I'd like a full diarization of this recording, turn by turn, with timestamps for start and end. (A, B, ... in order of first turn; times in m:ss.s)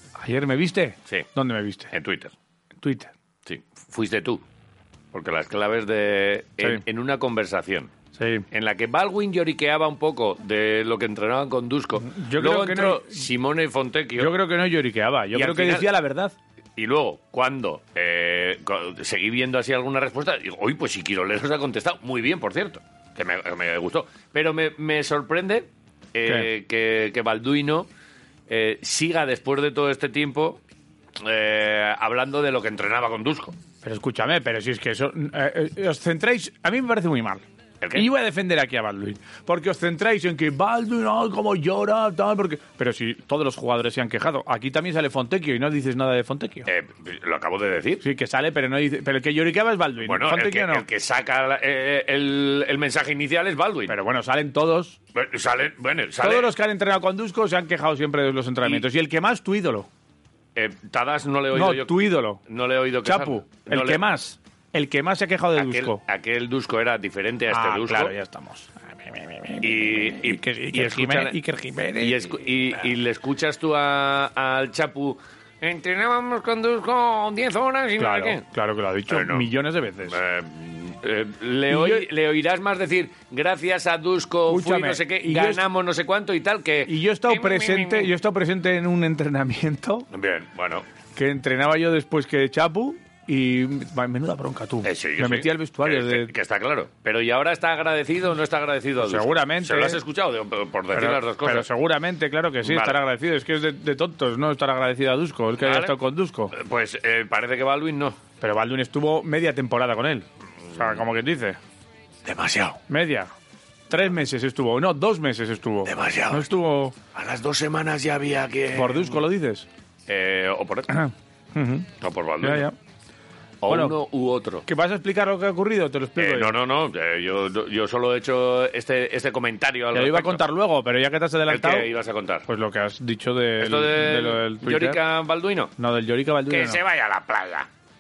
0:00.2-0:01.9 A
0:01.9-0:02.3 B
0:02.8-0:03.1 A
0:03.4-0:04.4 B
0:05.1-0:07.9 B
0:08.2-0:08.4 A
0:08.5-0:14.3 B
0:12.0-0:13.2 A
0:14.2-0:16.3 A
0:15.3-0:15.9 B
0:16.8-0:27.9 B
0:28.5-0:30.6 B
0:31.2-0:33.5 B
0:33.8-0:37.4 A
0:37.8-0:38.0 B
0:37.9-0:46.7 A
0:46.6-0:48.0 B
0:48.0-0:50.8 A
0:50.0-0:54.0 B
0:53.9-0:55.0 A
0:55.1-0:56.5 B
0:56.2-0:59.9 A
1:00.6-1:04.0 B
1:01.5-1:02.4 A
1:03.0-1:06.0 A
1:05.5-1:08.1 B
1:07.5-1:12.3 A
1:09.6-1:11.4 B
1:12.0-1:18.4 B
1:18.0-1:20.2 A
1:19.1-1:19.5 B
1:20.1-1:28.1 B
1:21.7-1:22.0 A
1:24.5-1:25.6 A
1:26.8-1:30.1 A
1:30.1-1:30.8 B
1:31.2-1:36.3 A
1:34.8-1:41.7 B
1:39.0-1:40.0 A
1:40.9-1:46.5 A
1:42.6-1:43.0 B
1:45.6-1:45.9 B
1:46.5-1:48.2 B
1:48.4-1:51.6 A
1:50.7-1:51.0 B
1:52.2-1:52.8 B
1:52.9-1:53.3 A
1:53.9-1:56.9 A
1:55.8-1:56.5 B
1:57.1-1:59.2 B
1:58.7-1:59.6 A
2:00.1-2:00.9 B
2:00.9-2:01.9 A
2:02.0-2:02.7 B
2:02.4-2:02.7 A
2:03.6-2:04.6 B
2:03.7-2:03.9 A
2:04.6-2:06.5 A
2:06.2-2:10.4 B
2:09.9-2:11.9 A
2:11.5-2:12.4 B
2:12.5-2:15.0 A
2:13.6-2:15.7 B
2:15.8-2:16.8 A
2:16.5-2:17.7 B